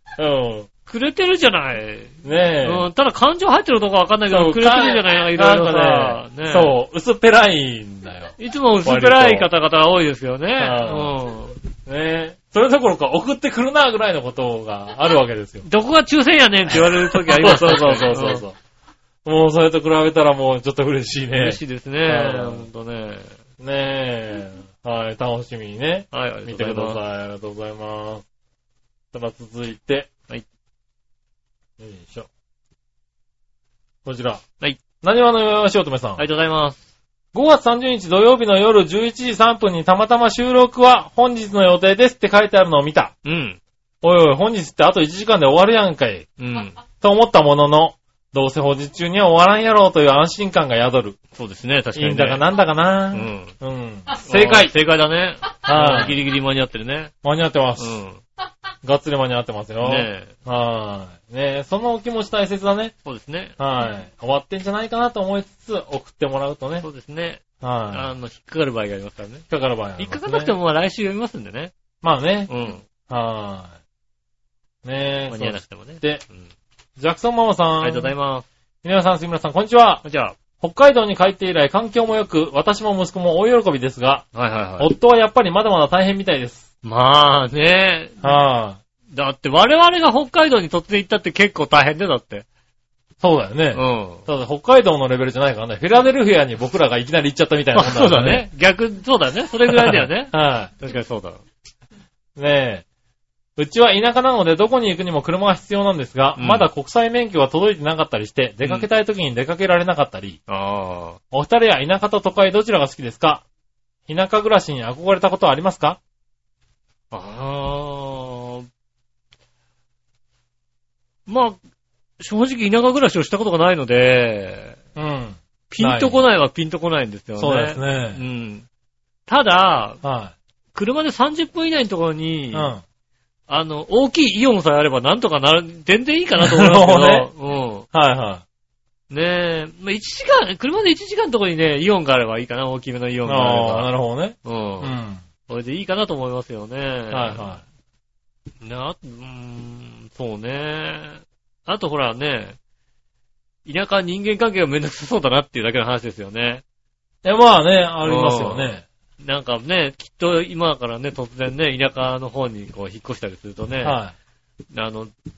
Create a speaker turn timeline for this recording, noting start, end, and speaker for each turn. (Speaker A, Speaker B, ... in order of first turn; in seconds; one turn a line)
Speaker A: 0.2-0.7
Speaker B: 0.8-6.7
Speaker A: 2.2-2.9
Speaker A: 4.3-9.5
Speaker B: 8.4-11.6
Speaker A: 10.6-11.1
Speaker A: 11.8-15.6
Speaker B: 15.6-18.4
Speaker A: 16.7-18.6
Speaker A: 19.2-22.6
Speaker B: 21.4-23.3
Speaker A: 23.6-28.2
Speaker B: 26.1-27.0
Speaker A: 29.1-30.1
Speaker A: 31.8-32.3
Speaker A: 34.0-34.4
Speaker A: 35.0-36.2
Speaker B: 36.2-36.8
Speaker A: 37.3-43.1
Speaker B: 43.2-43.6
Speaker A: 44.0-46.3
Speaker B: 46.4-46.8
Speaker A: 47.0-51.2
Speaker B: 51.3-52.4
Speaker A: 51.9-54.7
Speaker B: 53.1-53.5
Speaker B: 54.2-57.1
Speaker A: 55.6-56.2
Speaker A: 57.2-58.0
Speaker B: 57.8-58.2
Speaker A: 58.8-62.9
Speaker B: 59.8-60.3
Speaker B: 63.0-63.6
Speaker A: 63.6-66.8
Speaker B: 66.8-69.5
Speaker A: 67.6-68.1
Speaker A: 69.5-70.5
Speaker B: 70.0-71.7
Speaker A: 72.0-72.5
Speaker B: 72.5-72.8
Speaker A: 73.1-73.7
Speaker A: 74.8-76.2
Speaker B: 75.3-76.5
Speaker A: 77.0-78.1
Speaker B: 77.8-78.5
Speaker A: 78.8-80.0
Speaker B: 80.0-80.3
Speaker A: 80.6-84.3
Speaker B: 84.3-84.9
Speaker A: 84.8-86.7
Speaker B: 86.8-88.4
Speaker A: 88.2-88.8
Speaker B: 89.1-92.5
Speaker A: 93.2-98.5
Speaker B: 93.7-94.2
Speaker B: 97.7-101.4
Speaker A: 99.7-100.7
Speaker A: 102.3-102.8
Speaker A: 103.6-110.4
Speaker B: 106.4-106.7
Speaker B: 110.5-111.2
Speaker A: 111.3-113.4
Speaker A: 114.1-116.0
Speaker B: 117.1-118.7
Speaker B: 121.3-121.6
Speaker B: 122.2-124.8
Speaker A: 125.0-126.2
Speaker B: 125.7-128.6
Speaker A: 127.4-128.2
Speaker B: 129.3-130.0
Speaker A: 130.0-130.3
Speaker B: 130.7-132.7
Speaker A: 132.5-132.8
Speaker B: 133.5-137.9
Speaker A: 136.4-137.3
Speaker A: 137.9-138.4
Speaker B: 139.1-143.9
Speaker A: 143.2-145.2
Speaker B: 144.4-144.9
Speaker B: 145.5-147.5
Speaker A: 147.1-147.6
Speaker B: 148.6-152.6
Speaker B: 153.6-156.6
Speaker A: 157.2-158.8
Speaker B: 158.0-164.0
Speaker A: 163.8-164.1
Speaker B: 164.7-165.1